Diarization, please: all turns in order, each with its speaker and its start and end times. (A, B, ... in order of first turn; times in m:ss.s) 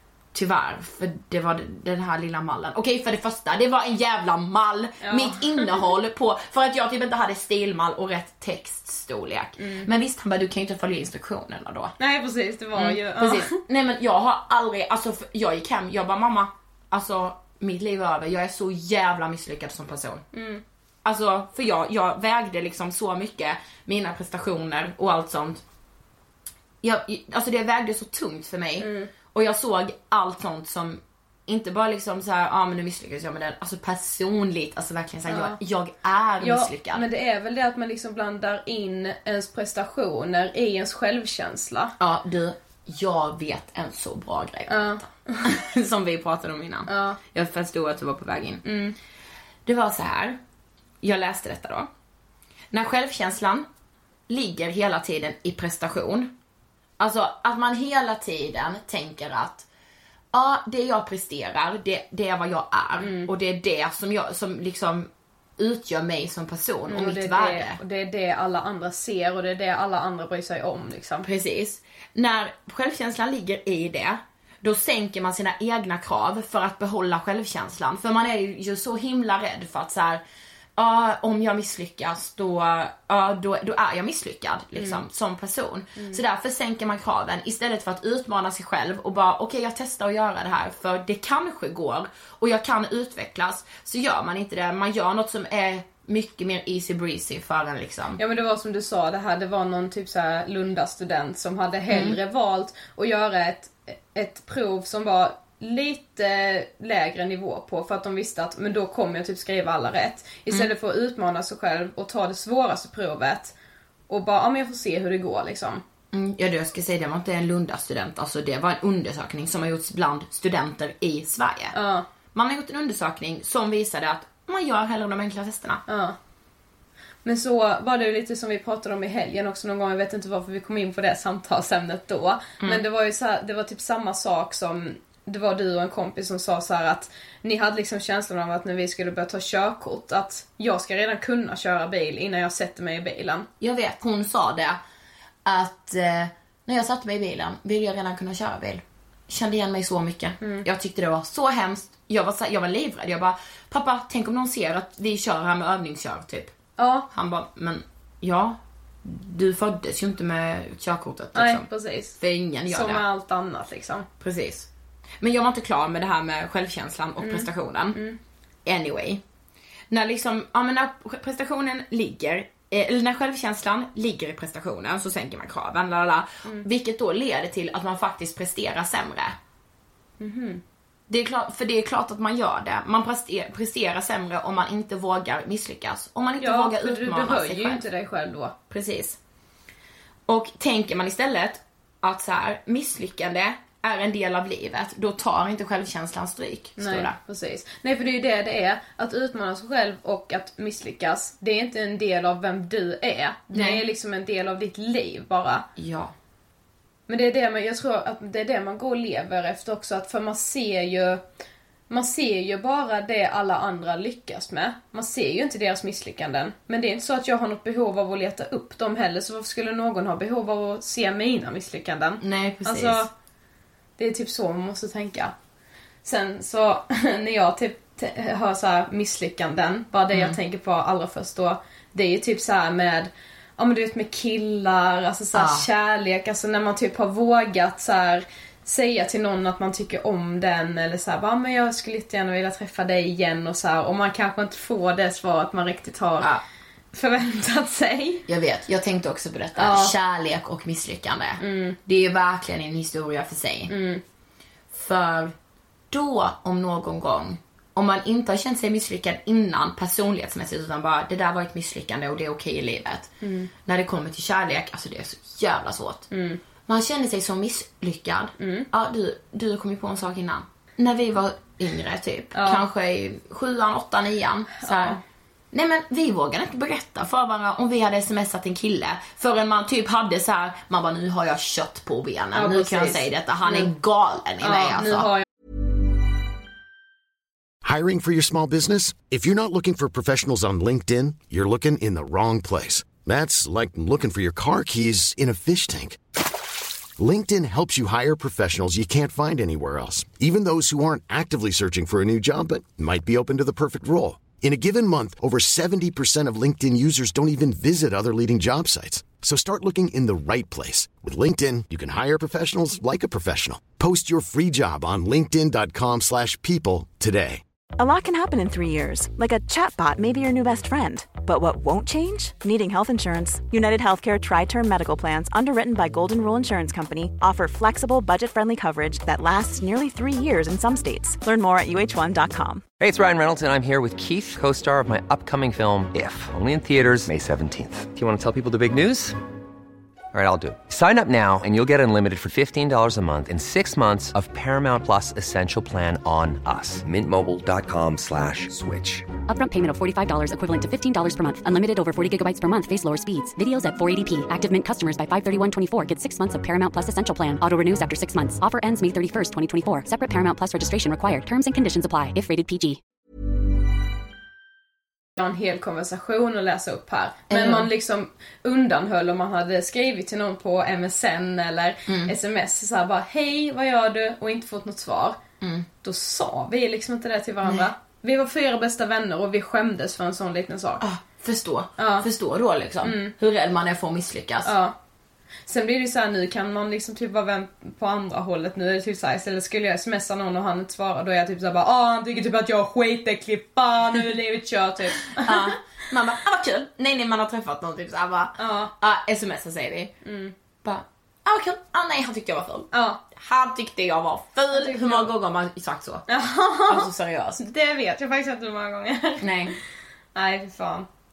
0:00.3-0:12.0 A
0:05.0-0:05.8 B
0:09.6-0:09.9 B
0:12.0-0:13.6 B
0:12.7-0:20.2 A
0:20.3-0:20.6 B
0:21.0-0:25.6 A
0:26.8-0:37.0 A
0:28.8-0:29.1 B
0:35.3-0:35.6 B
0:36.4-0:41.9 B
0:42.0-0:48.6 A
0:44.7-0:45.5 B
0:46.9-0:47.2 B
0:48.6-0:48.9 B
0:49.6-0:50.4 A
0:51.0-0:51.9 A
0:52.7-0:53.7 A
0:54.3-0:56.3 A
0:57.0-0:59.6 A
1:00.3-1:07.8 A
1:03.0-1:03.3 B
1:06.9-1:11.2 B
1:11.2-1:20.2 A
1:20.8-1:38.2 A
1:24.8-1:25.0 B
1:38.2-1:53.5 B
1:41.9-1:42.2 A
1:54.1-1:55.8 B
1:56.1-2:01.8 A
2:01.7-2:02.0 B
2:02.3-2:05.8 A
2:05.9-2:06.2 B
2:07.2-2:23.5 B
2:23.6-2:24.8 A
2:25.4-2:36.5 A
2:36.8-2:37.1 B
2:37.1-2:41.7 A
2:41.4-2:44.1 B
2:42.2-2:43.0 A
2:44.2-2:44.7 A
2:45.2-2:48.0 A
2:47.2-2:48.2 B
2:48.6-2:49.2 A
2:49.9-2:59.4 A
3:00.2-3:00.6 B
3:01.1-3:07.8 A
3:06.4-3:08.6 B
3:08.7-3:09.2 A
3:10.3-3:17.1 A
3:16.8-3:25.6 B
3:23.5-3:23.8 A
3:25.8-3:26.1 A
3:27.1-3:31.2 B
3:31.9-3:43.1 B
3:42.2-3:43.1 A
3:44.0-3:45.3 B
3:46.0-4:06.3 B
3:50.1-3:50.4 A
3:55.4-3:55.6 A
4:06.9-4:08.2 B
4:08.3-4:13.7 A
4:09.6-4:09.9 B
4:11.4-4:11.8 B
4:13.7-4:14.0 B
4:14.7-4:15.3 A
4:15.9-4:23.1 A
4:23.2-4:23.5 B
4:23.6-4:26.1 A
4:26.1-4:26.4 B
4:26.7-4:35.0 A
4:28.4-4:28.7 B
4:32.4-4:32.6 B
4:34.6-4:35.0 B
4:35.5-4:45.2 A
4:42.4-4:43.7 B
4:44.4-4:45.2 B
4:47.6-4:56.0 C
4:57.0-5:17.4 C
5:17.8-5:32.6 D
5:32.8-5:39.2 E
5:40.1-5:49.1 E
5:49.3-6:02.8 F
6:05.2-6:15.2 B
6:07.3-6:07.7 A
6:11.9-6:12.1 A
6:15.4-6:15.7 A
6:15.8-6:20.8 B
6:20.8-6:24.5 A
6:21.8-6:22.1 B
6:22.8-6:23.1 B
6:24.4-6:24.7 B
6:25.5-6:35.6 B
6:35.2-6:39.9 A
6:38.4-6:38.7 B
6:40.0-6:40.3 B
6:40.6-6:46.1 A
6:42.7-6:43.0 B
6:44.5-6:45.1 B
6:46.1-6:46.9 B
6:46.7-6:47.4 A
6:47.4-6:49.6 B
6:49.2-6:49.6 A
6:50.1-6:50.9 B